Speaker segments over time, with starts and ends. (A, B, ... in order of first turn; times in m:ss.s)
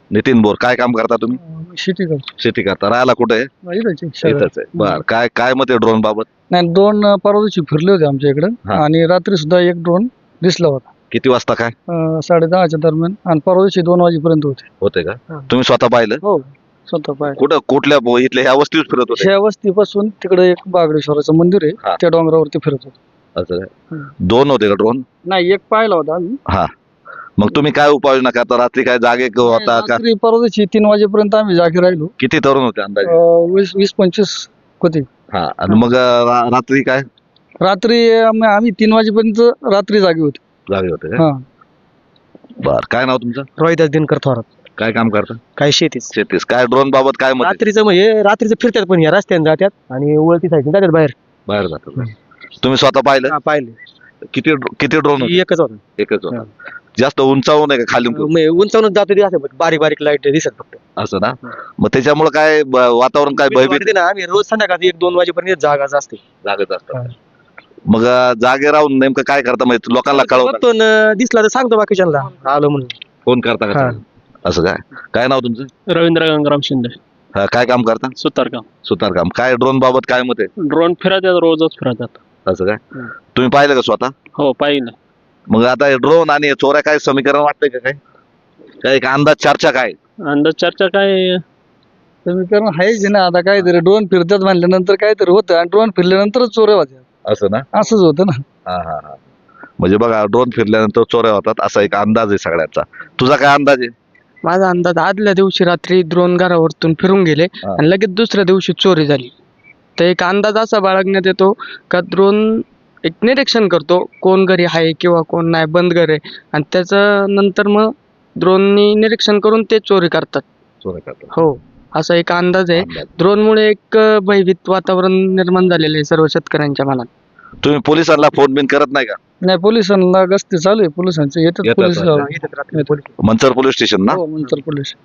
0:00.1-0:01.4 A
0:01.4-0:02.2 B
0:02.4-0:03.5 A
0:03.6-0:05.0 B
0:04.2-0:06.3 A
0:06.5-0:10.9 B
0:11.1-0:11.8 A
0:11.9-0:14.7 B
0:14.8-0:16.2 A
0:16.2-0:17.4 B
0:17.3-0:19.3 A
0:19.1-0:23.0 B
0:23.4-0:23.7 A
0:24.2-0:25.0 A
0:25.2-0:26.4 B
0:27.4-0:30.0 A
0:29.4-0:32.1 B
0:32.2-0:33.2 A
0:33.0-0:35.1 B
0:35.3-0:37.1 A
0:37.6-0:40.4 B
0:40.7-0:41.2 A
0:41.2-0:41.4 B
0:42.6-0:43.5 A
0:43.6-0:44.5 C
0:44.8-0:45.4 A
0:45.6-0:46.1 C
0:46.1-0:47.6 A
0:47.4-0:51.2 C
0:51.5-0:53.4 A
0:53.3-0:53.8 C
0:54.3-0:55.4 A
0:55.2-0:55.8 C
0:56.0-0:56.4 A
0:57.0-0:58.3 A
0:58.1-1:00.8 C
1:01.0-1:03.9 A
1:03.3-1:06.2 C
1:06.4-1:07.0 A
1:07.9-1:10.6 A
1:10.1-1:13.0 C
1:13.3-1:15.7 A
1:13.7-1:14.0 C
1:15.9-1:17.0 D
1:17.4-1:18.1 A
1:18.2-1:18.6 D
1:18.8-1:20.5 A
1:20.6-1:22.2 D
1:22.5-1:22.8 A
1:23.3-1:24.1 A
1:24.4-1:25.0 D
1:25.5-1:28.0 A
1:28.8-1:30.0 A
1:30.2-1:31.4 D
1:32.2-1:37.0 B
1:37.3-1:37.7 A
1:37.7-1:38.4 B
1:38.7-1:39.2 A
1:39.8-1:43.9 A
1:44.4-1:49.3 E
1:50.0-2:00.4 E
2:00.8-2:01.3 A
2:01.3-2:07.1 E
2:02.8-2:03.1 A
2:07.6-2:09.2 A
2:09.4-2:12.9 B
2:11.6-2:12.2 A
2:12.2-2:13.1 C
2:13.2-2:14.2 A
2:14.1-2:15.0 B